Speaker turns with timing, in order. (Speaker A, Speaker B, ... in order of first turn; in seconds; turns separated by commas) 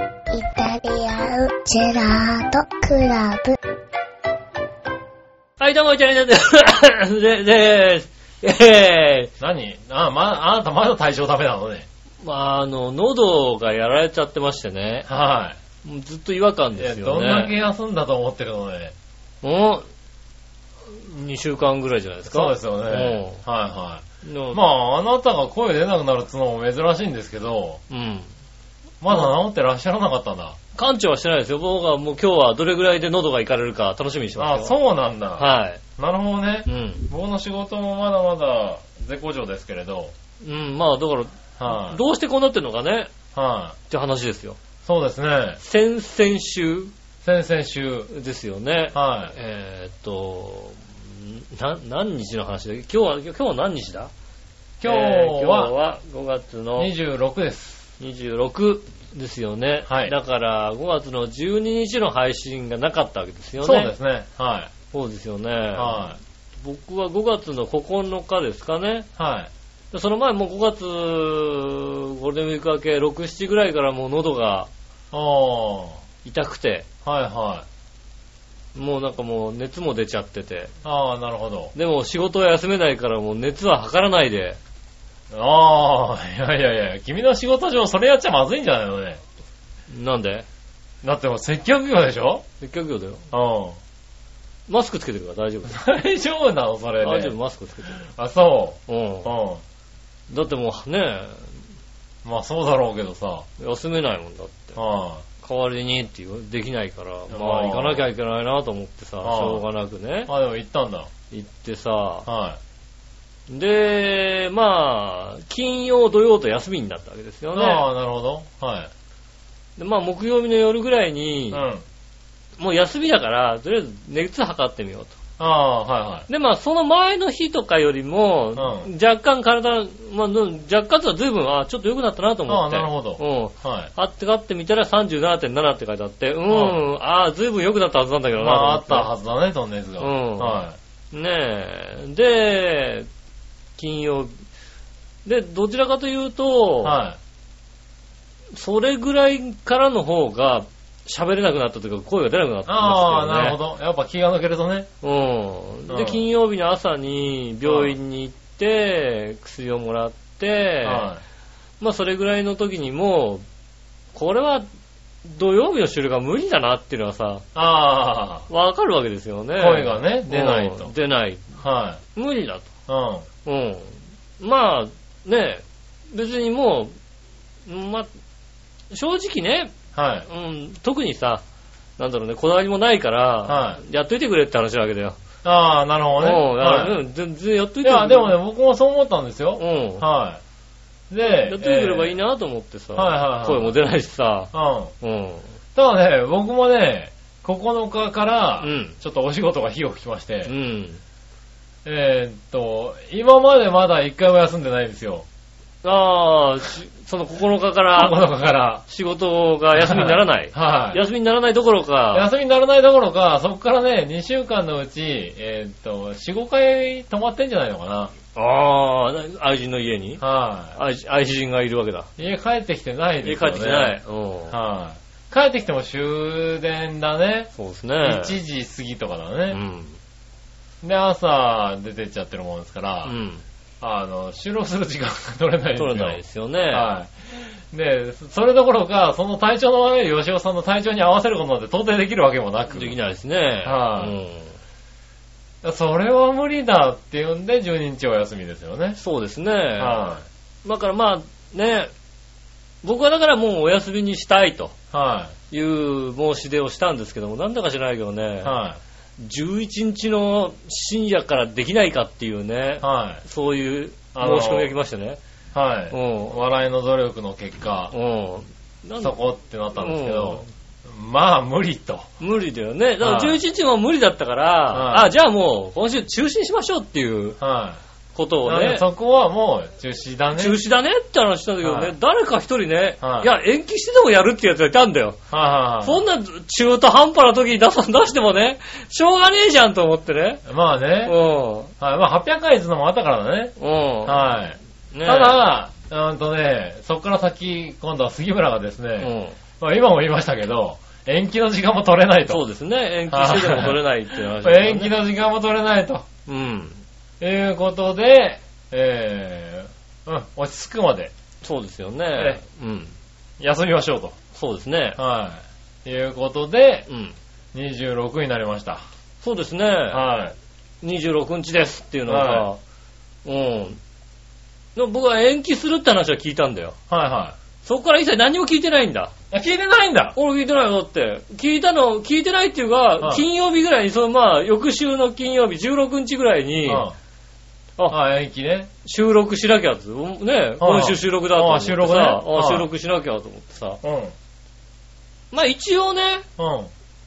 Speaker A: 0.3-3.6, Speaker B: 5.6-9.3, Speaker C: 9.4-11.9, Speaker B: 12.2-15.1, Speaker C: 15.1-15.6, Speaker B: 15.8-17.5, Speaker C: 16.8-18.9, Speaker B: 19.4-19.9, Speaker B: 20.9-23.4, Speaker C: 22.3-27.8, Speaker B: 24.2-24.6, Speaker B: 27.9-28.3, Speaker C: 29.0-30.6, Speaker B: 30.7-34.7, Speaker C: 34.4-40.1, Speaker B: 35.4-35.8, Speaker B: 36.6-37.1, Speaker B: 40.4-43.1, Speaker C: 41.6-42.0, Speaker C: 43.3-43.8, Speaker B: 43.9-44.6, Speaker C: 44.8-45.6, Speaker B: 45.6-46.9, Speaker C: 47.2-48.1, Speaker B: 48.1-54.1, Speaker C: 48.9-49.3, Speaker C: 54.8-55.7, Speaker B: 54.9-56.9, Speaker C: 56.8-57.8, Speaker B: 58.0-63.9, Speaker C: 59.9-60.1, Speaker C: 63.6-64.7, Speaker B: 64.9-66.0, Speaker C: 65.7-66.2, Speaker B: 66.6-69.1, Speaker C: 69.2-69.5, Speaker B: 69.9-74.7, Speaker C: 75.1-76.0, Speaker B: 76.2-76.8, Speaker C: 77.0-77.6, Speaker B: 78.7-80.7, Speaker C: 80.8-81.7, Speaker B: 81.7-84.6, Speaker C: 85.3-89.2, Speaker B: 89.9-90.5, Speaker C: 91.0-92.4, Speaker B: 92.6-93.2, Speaker C: 93.3-93.8, Speaker B: 94.7-95.8, Speaker C: 95.7-97.3, Speaker B: 97.0-98.0, Speaker C: 98.1-99.6, Speaker B: 98.9-99.3, Speaker B: 100.3-101.5, Speaker C: 102.2-103.5, Speaker B: 103.6-104.8, Speaker C: 104.8-105.2, Speaker B: 105.4-110.3, Speaker C: 107.3-108.0, Speaker C: 109.2-109.6, Speaker C: 110.3-111.1, Speaker B: 111.3-112.2, Speaker C: 112.2-112.6, Speaker B: 113.5-117.8, Speaker C: 117.5-118.9, Speaker B: 119.8-121.6, Speaker C: 121.5-121.8, Speaker B: 122.6-125.2, Speaker C: 125.4-126.2, Speaker B: 126.3-139.1, Speaker C: 128.6-128.9, Speaker C: 132.5-133.9, Speaker C: 136.5-136.8, Speaker C: 138.4-140.8, Speaker B: 140.0-140.6, Speaker B: 141.1-143.1, Speaker B: 143.8-144.3, Speaker B: 145.2-147.0, Speaker C: 146.8-147.2, Speaker B: 148.5-153.6, Speaker C: 152.7-154.9, Speaker B: 155.0-161.1, Speaker C: 155.9-156.2, Speaker C: 157.6-157.9, Speaker C: 160.8-161.2, Speaker B: 161.8-163.4, Speaker B: 164.1-164.7, Speaker B: 165.2-167.4, Speaker C: 167.5-168.5, Speaker B: 168.5-171.4, Speaker C: 169.6-170.9, Speaker C: 171.6-172.0, Speaker B: 172.2-172.7, Speaker C: 172.9-173.2, Speaker B: 173.4-176.9, Speaker B: 177.7-178.1, Speaker B: 178.9-179.7, Speaker C: 179.9-180.3, Speaker B: 180.3-181.4, Speaker B: 182.0-185.2, Speaker C: 183.5-183.8, Speaker C: 185.4-187.0, Speaker B: 186.2-188.3, Speaker C: 187.8-190.4, Speaker B: 189.6-190.0, Speaker C: 191.1-192.1, Speaker B: 191.2-195.5, Speaker C: 192.9-193.7, Speaker C: 194.5-194.9, Speaker C: 195.7-200.5, Speaker B: 198.6-198.9, Speaker B: 200.4-201.0, Speaker C: 201.8-205.2, Speaker B: 205.8-208.2, Speaker C: 207.9-208.8, Speaker B: 208.9-212.3, Speaker C: 209.8-211.0, Speaker C: 212.1-218.1, Speaker B: 218.3-220.2, Speaker C: 220.2-220.8, Speaker B: 220.7-222.1, Speaker C: 222.2-224.0, Speaker B: 223.2-224.5, Speaker C: 224.5-229.6, Speaker B: 227.6-228.3, Speaker B: 229.5-229.9, Speaker C: 230.8-233.1, Speaker B: 233.0-233.4, Speaker C: 233.8-236.2, Speaker B: 235.8-236.9, Speaker C: 236.7-242.9, Speaker B: 242.7-244.5, Speaker C: 243.6-244.1, Speaker C: 245.6-249.0, Speaker B: 249.0-250.0, Speaker C: 249.8-250.2, Speaker B: 250.6-251.9, Speaker B: 252.8-254.7, Speaker C: 254.9-255.3, Speaker B: 255.5-258.5, Speaker C: 258.4-258.8, Speaker B: 259.2-265.2, Speaker C: 262.8-263.2, Speaker C: 264.1-264.7, Speaker C: 265.5-267.9, Speaker B: 265.9-266.4, Speaker B: 267.9-269.1, Speaker C: 269.0-272.1, Speaker B: 269.8-270.5, Speaker B: 272.2-277.4, Speaker C: 273.0-273.4, Speaker C: 274.7-275.1, Speaker C: 277.4-277.8, Speaker B: 278.1-278.8, Speaker C: 278.4-280.6, Speaker B: 280.3-285.2, Speaker C: 281.6-281.9, Speaker C: 283.0-283.3, Speaker C: 285.3-286.0, Speaker B: 285.8-290.4, Speaker C: 290.4-291.1, Speaker B: 291.0-291.7, Speaker C: 291.8-302.4, Speaker B: 293.6-294.2, Speaker B: 294.9-295.4, Speaker B: 299.0-299.4, Speaker B: 302.3-304.9, Speaker C: 303.1-306.1, Speaker B: 306.3-306.8, Speaker C: 307.2-311.1, Speaker B: 311.4-312.9, Speaker C: 312.1-312.4, Speaker C: 313.4-314.1, Speaker B: 314.3-315.0, Speaker C: 315.0-316.9, Speaker B: 316.9-317.1, Speaker C: 317.5-318.8, Speaker B: 319.2-320.0, Speaker C: 319.9-320.4, Speaker B: 320.8-322.6, Speaker C: 322.1-322.5, Speaker B: 323.2-323.8, Speaker B: 324.8-326.8, Speaker C: 326.9-327.4, Speaker B: 327.6-329.1, Speaker C: 329.3-330.1, Speaker B: 330.1-336.9, Speaker C: 333.0-333.2, Speaker C: 336.6-336.9, Speaker C: 337.9-338.7, Speaker B: 338.8-343.8, Speaker C: 340.6-342.7, Speaker C: 343.8-344.1, Speaker B: 345.3-346.2, Speaker C: 346.4-346.7